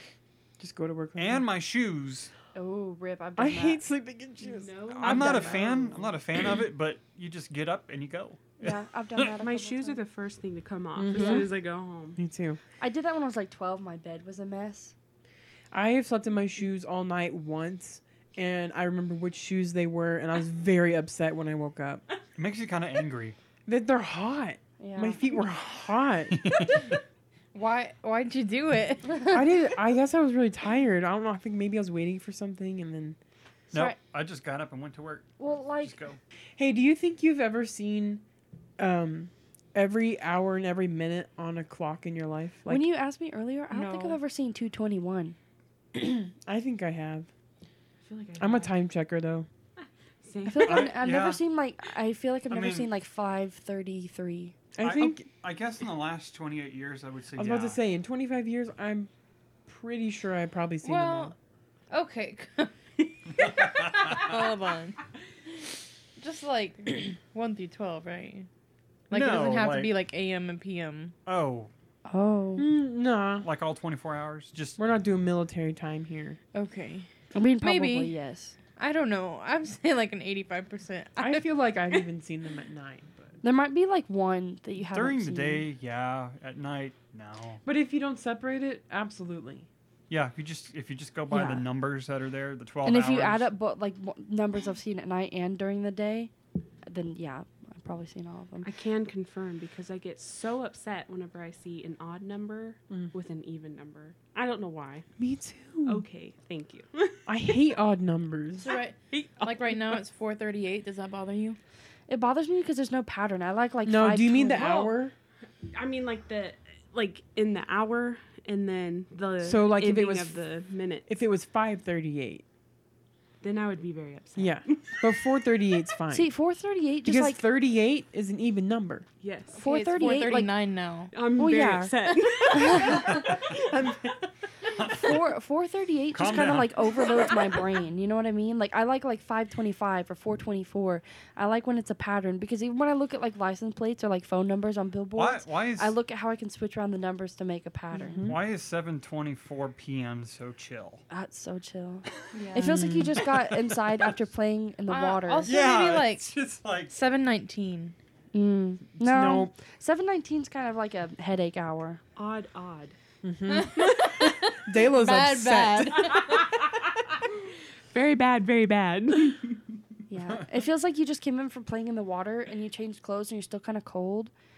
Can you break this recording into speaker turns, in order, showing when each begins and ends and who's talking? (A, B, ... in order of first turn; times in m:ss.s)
0:00.6-0:01.5 A
0:01.2-0:02.3 B
0:02.6-0:03.8 C
0:03.4-0:05.5 A
0:04.4-0:06.2 D
0:04.9-0:09.3 B
0:05.0-0:05.7 C
0:08.6-0:10.0 C
0:09.4-0:12.2 D
0:11.0-0:11.5 A
0:11.2-0:11.4 C
0:12.2-0:12.6 A
0:12.8-0:15.0 C
0:15.7-0:22.0 A
0:22.4-0:23.4 B
0:23.7-0:26.4 A
0:24.8-0:25.3 C
0:26.3-0:27.0 B
0:27.5-0:29.4 E
0:29.3-0:33.2 A
0:33.7-0:36.2 B
0:35.4-0:36.0 C
0:36.6-0:38.2 A
0:38.8-0:42.9 A
0:42.7-0:45.4 C
0:43.7-0:44.1 E
0:46.0-0:47.3 A
0:48.0-0:48.8 D
0:48.4-0:49.5 A
0:50.2-0:50.9 D
0:50.4-0:54.6 C
0:50.6-0:51.4 B
0:52.5-0:52.9 B
0:54.8-0:55.3 A
0:54.8-0:57.8 B
0:57.3-0:59.1 A
0:59.7-1:01.3 A
1:00.8-1:01.4 E
1:01.9-1:02.7 E
1:03.4-1:05.0 E
1:03.4-1:04.4 B
1:06.2-1:08.5 E
1:09.1-1:11.2 E
1:09.1-1:10.0 B
1:11.3-1:11.7 B
1:12.1-1:12.7 C
1:12.6-1:13.5 A
1:13.4-1:14.8 B
1:14.8-1:16.4 A
1:16.5-1:17.1 E
1:17.3-1:18.6 C
1:17.6-1:18.2 E
1:18.8-1:22.0 E
1:21.2-1:23.4 A
1:23.4-1:25.7 C
1:24.8-1:27.6 B
1:27.6-1:29.7 A
1:30.1-1:33.5 B
1:31.3-1:31.6 A
1:32.8-1:36.3 C
1:36.8-1:38.7 C
1:38.6-1:45.1 D
1:45.2-1:46.1 A
1:45.8-1:47.6 D
1:47.3-1:48.7 A
1:48.6-1:51.6 E
1:48.7-1:50.0 D
1:52.1-1:54.8 C
1:53.8-1:55.1 A
1:54.5-1:55.0 D
1:55.6-2:01.1 D
1:59.4-2:00.4 A
2:01.1-2:02.4 A
2:03.4-2:05.1 D
2:04.4-2:06.3 A
2:06.1-2:07.4 C
2:07.0-2:09.1 A
2:09.2-2:09.6 D
2:09.6-2:11.1 E
2:09.6-2:10.5 C
2:11.1-2:13.3 D
2:11.4-2:11.9 C
2:12.5-2:13.3 C
2:12.9-2:14.3 A
2:14.7-2:15.3 B
2:14.8-2:28.2 C
2:16.1-2:16.9 B
2:25.2-2:26.0 B
2:27.9-2:28.4 A
2:28.2-2:31.0 B
2:31.1-2:35.5 C
2:32.4-2:32.7 E
2:32.6-2:33.3 A
2:33.7-2:34.1 B
2:34.9-2:36.4 E
2:35.4-2:36.9 B
2:36.9-2:38.0 E
2:38.3-2:42.0 C
2:39.0-2:39.5 A
2:42.2-2:43.0 D
2:43.2-2:46.2 A
2:43.5-2:46.5 E
2:46.0-2:47.0 D
2:47.9-2:49.6 D
2:50.1-2:54.3 C